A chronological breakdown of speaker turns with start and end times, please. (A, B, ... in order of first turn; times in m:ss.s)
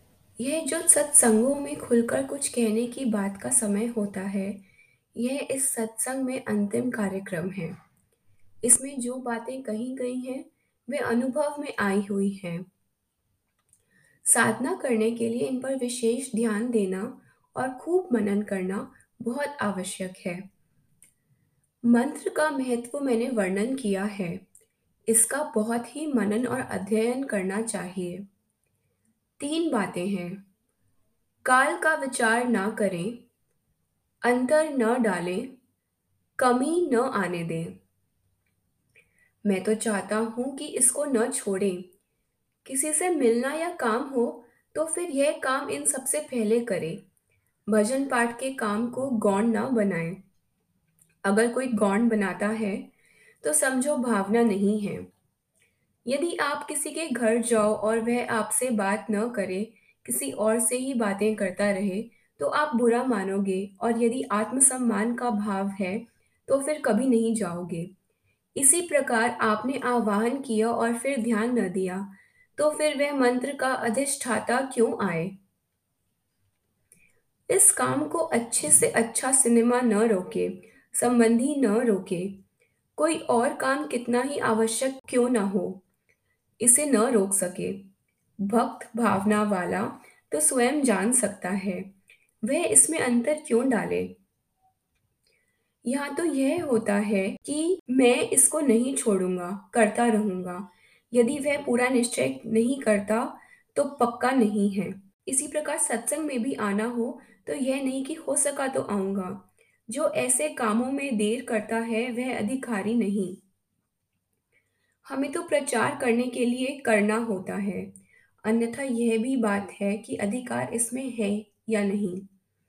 0:00.4-0:04.6 A
0:05.1-0:07.8 A
0:08.6-0:12.6 A
0:14.2-0:20.4 A
0:21.8-0:24.4 A
0:25.1-0:28.2 A
0:29.4-0:30.4 A
0:31.4-0:33.3 A
0:34.2-0:35.6 A
0:36.4-0:37.8 A
0:39.4-0:41.9 A
0:42.6-0:47.0 A
0:47.7-0:50.2 A
0:51.2-0:52.9 A
0:53.4-0:55.1 A
0:56.0-1:07.9 A
1:08.5-1:15.4 A
1:17.5-1:22.4 A
1:23.0-1:25.8 A
1:26.6-1:31.9 A
1:32.4-1:34.2 A
1:35.8-1:53.4 A
1:55.0-2:02.3 A